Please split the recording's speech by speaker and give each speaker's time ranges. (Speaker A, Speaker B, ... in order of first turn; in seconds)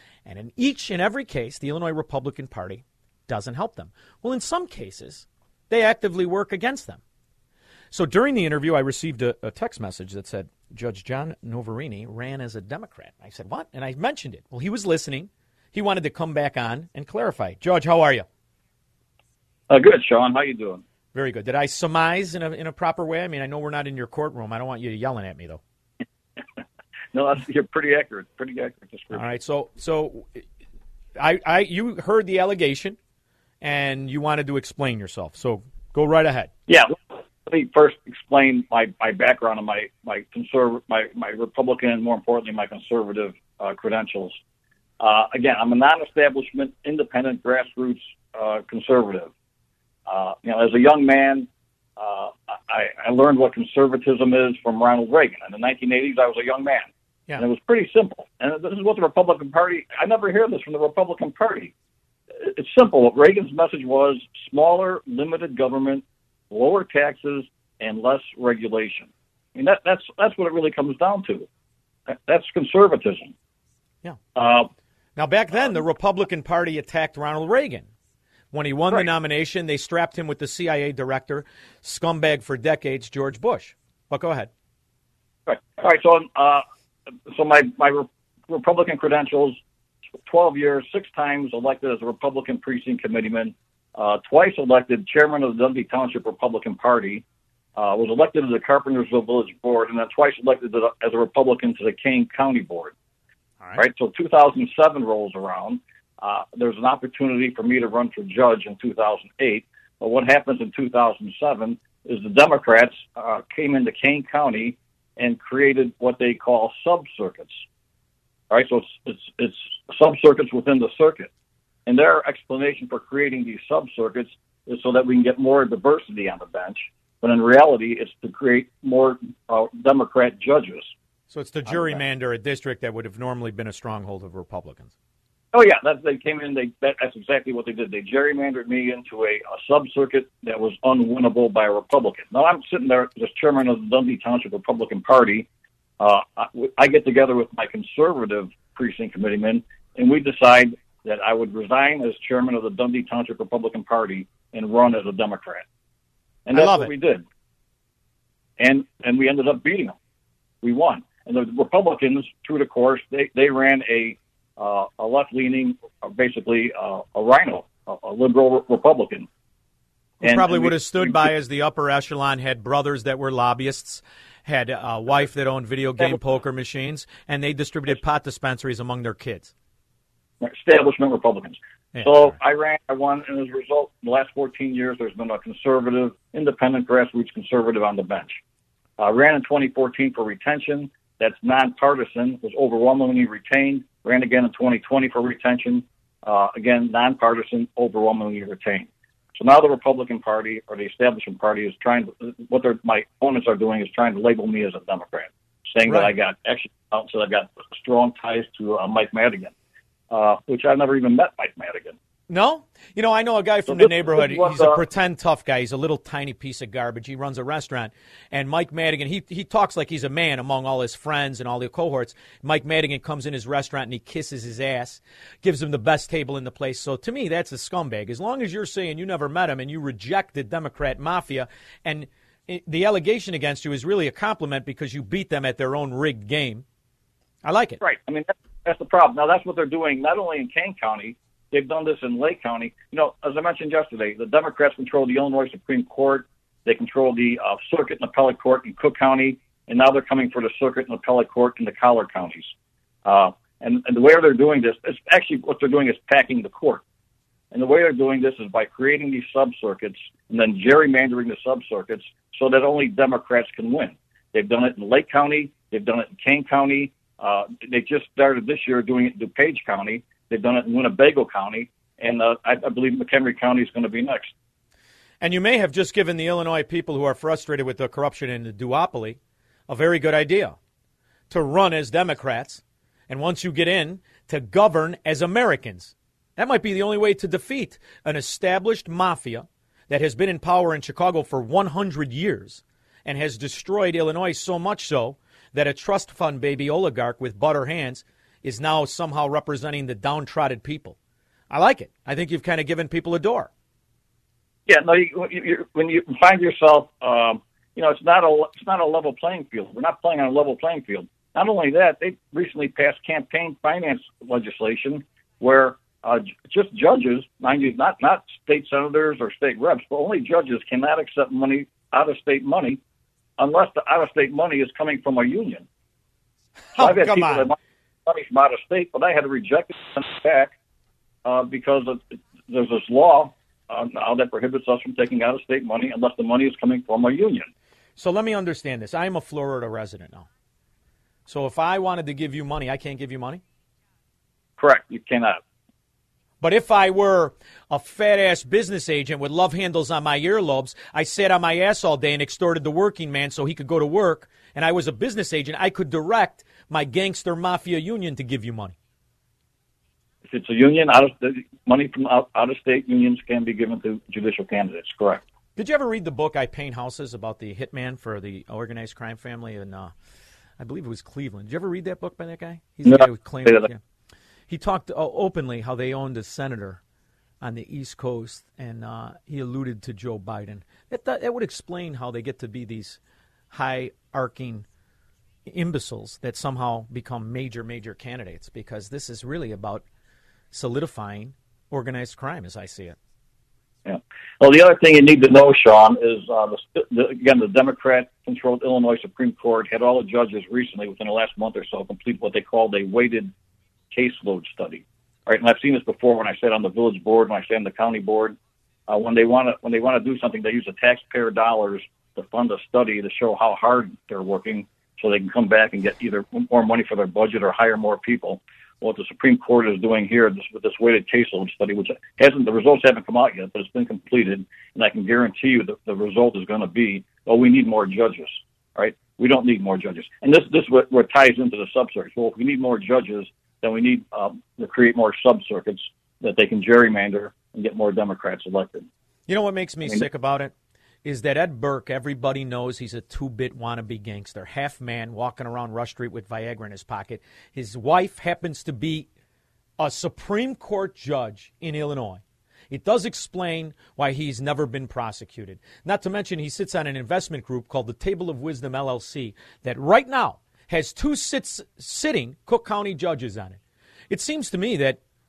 Speaker A: 0.3-7.0, 7.9-18.3, 21.1-25.6, 29.1-30.4, 31.2-33.0, 33.6-36.5, 75.2-77.9, 78.5-84.5, 131.3-134.9, 156.5-156.9, 170.2-179.5, 181.9-182.4, 205.8-206.1, 212.3-236.7, 237.4-237.8, 275.2-280.6, 281.3-301.0, 301.5-303.5, 326.8-327.5, 338.0-340.3, 341.3-343.4, 346.4-358.8, 365.6-369.9, 370.6-373.8, 374.5-376.8, 377.4-383.0, 383.5-384.7, 385.5-389.9, 390.5-393.0, 439.3-440.5, 441.0-449.1, 449.8-465.0
Speaker B: 19.7-20.8, 27.1-29.3, 36.7-44.3, 45.0-49.3, 50.1-61.7, 62.4-71.5, 72.1-73.3, 74.4-74.7, 75.6-75.8, 85.5-86.6, 87.3-89.6, 90.2-97.2, 97.8-102.9, 103.8-117.6, 118.5-121.3, 121.9-130.9, 131.7-132.0, 135.5-145.5, 146.0-155.6, 156.5-157.2, 158.6-159.9, 160.6-169.3, 170.2-171.3, 180.4-188.4, 189.0-209.5, 210.1-212.0, 213.7-214.8, 237.8-252.5, 253.1-256.8, 257.5-274.3, 304.7-322.8, 323.4-325.6, 326.8-330.5, 331.2-337.5, 344.6-345.4, 360.3-365.2, 372.9-373.7, 393.9-403.3, 403.9-408.4, 408.9-438.9